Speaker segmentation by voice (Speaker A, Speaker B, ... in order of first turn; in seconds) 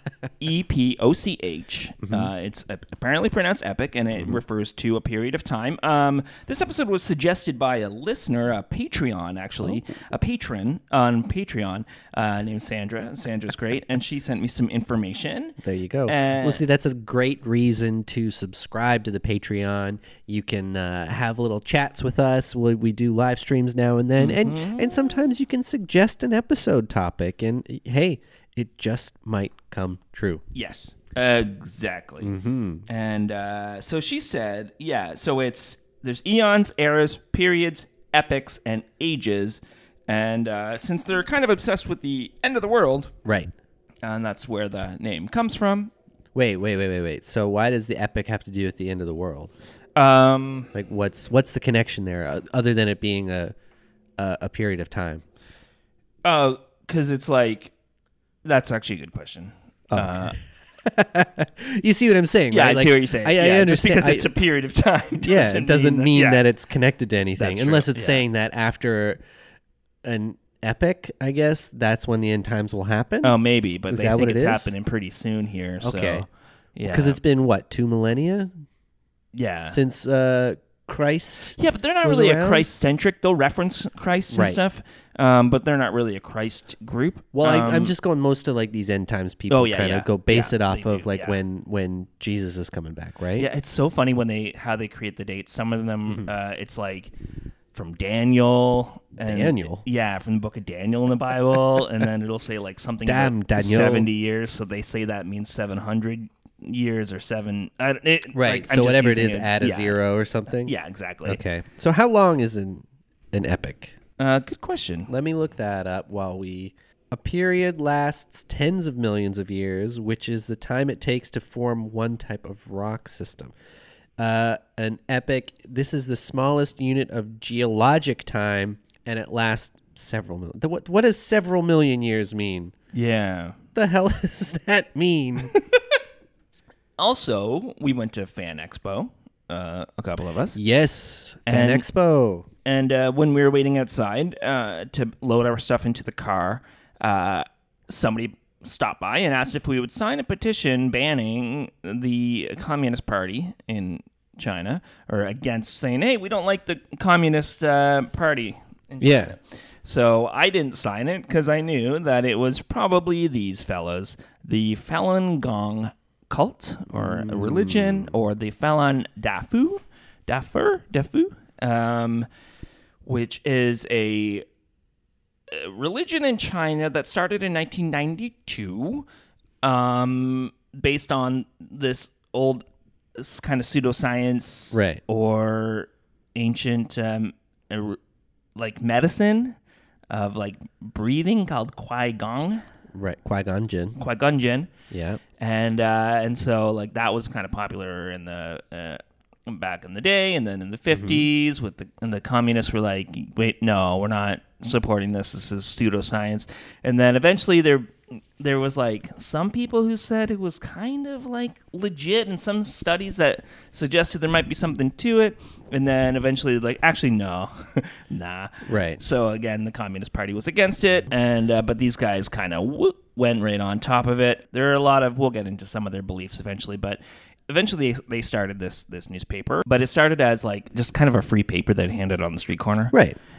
Speaker A: 0.4-16.6, 24.2-25.3, 30.6-32.3, 32.9-43.1, 44.0-45.9, 50.0-50.7, 56.2-57.7, 58.4-60.4, 62.5-66.4, 67.4-68.2, 73.2-77.2, 79.3-79.8, 81.6-87.9, 89.5-91.4, 93.4-97.1, 97.7-110.0, 110.5-111.4, 114.2-115.1, 132.9-133.6, 137.0-140.6, 141.5-141.8, 142.7-172.3, 173.1-174.4, 175.5-179.1, 179.6-182.7, 183.2-188.0, 188.6-189.6, 190.1-192.6, 194.0-194.7, 195.4-232.9
Speaker B: 15.6-30.4, 32.2-32.9, 43.2-43.5, 46.4-49.5, 50.7-53.5, 54.2-55.2, 59.9-64.3, 65.2-69.2, 70.0-73.4, 73.9-74.7, 75.8-76.3, 76.9-78.5, 79.7-82.7, 84.3-84.6, 87.3-93.5, 99.2-99.8, 103.0-104.1, 108.3-110.7, 111.2-114.0, 115.1-123.5, 124.2-132.7, 133.8-135.6, 140.5-142.5, 159.0-159.4, 166.9-168.2, 184.7-185.0, 192.9-194.0, 194.9-195.2, 200.9-201.3, 218.7-219.0, 232.9-233.2